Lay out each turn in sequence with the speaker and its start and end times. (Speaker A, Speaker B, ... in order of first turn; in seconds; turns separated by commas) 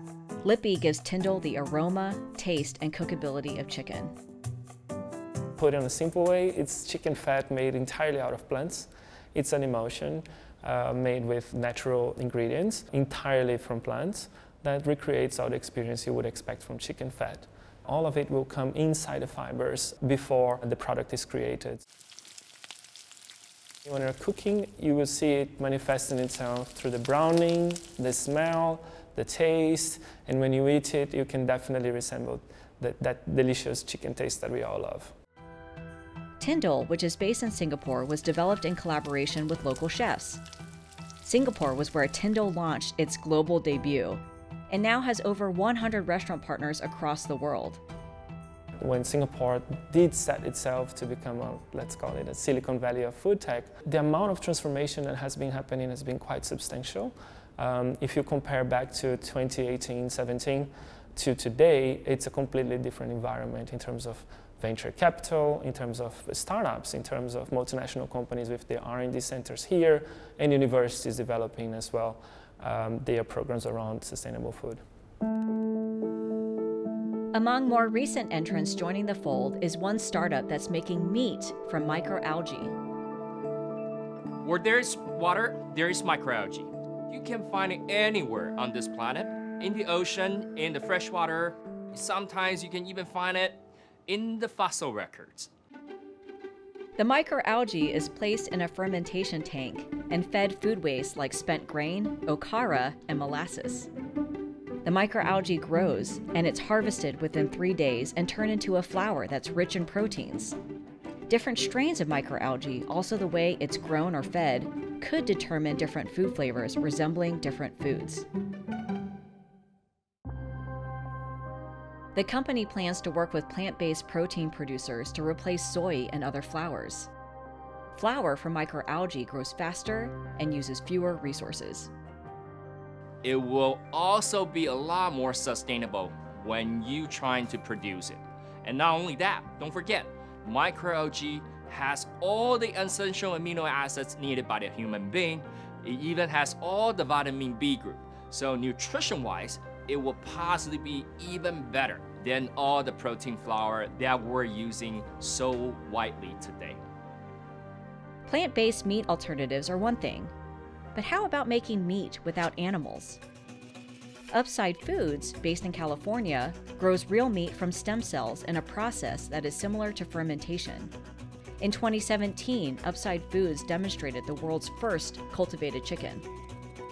Speaker A: 0.4-4.1, Speaker B: 5.6-21.8, Speaker B: 23.9-35.1, Speaker A: 36.4-40.4, Speaker A: 41.2-47.8, Speaker B: 48.8-74.8, Speaker A: 77.3-82.8, Speaker C: 84.4-95.5, Speaker A: 97.0-103.9, Speaker A: 104.8-110.6, Speaker A: 111.3-118.3, Speaker A: 122.2-127.1, Speaker A: 128.0-131.9, Speaker C: 133.2-156.8, Speaker A: 158.3-160.3, Speaker A: 160.9-163.2, Speaker A: 164.3-170.9, Speaker A: 171.6-176.2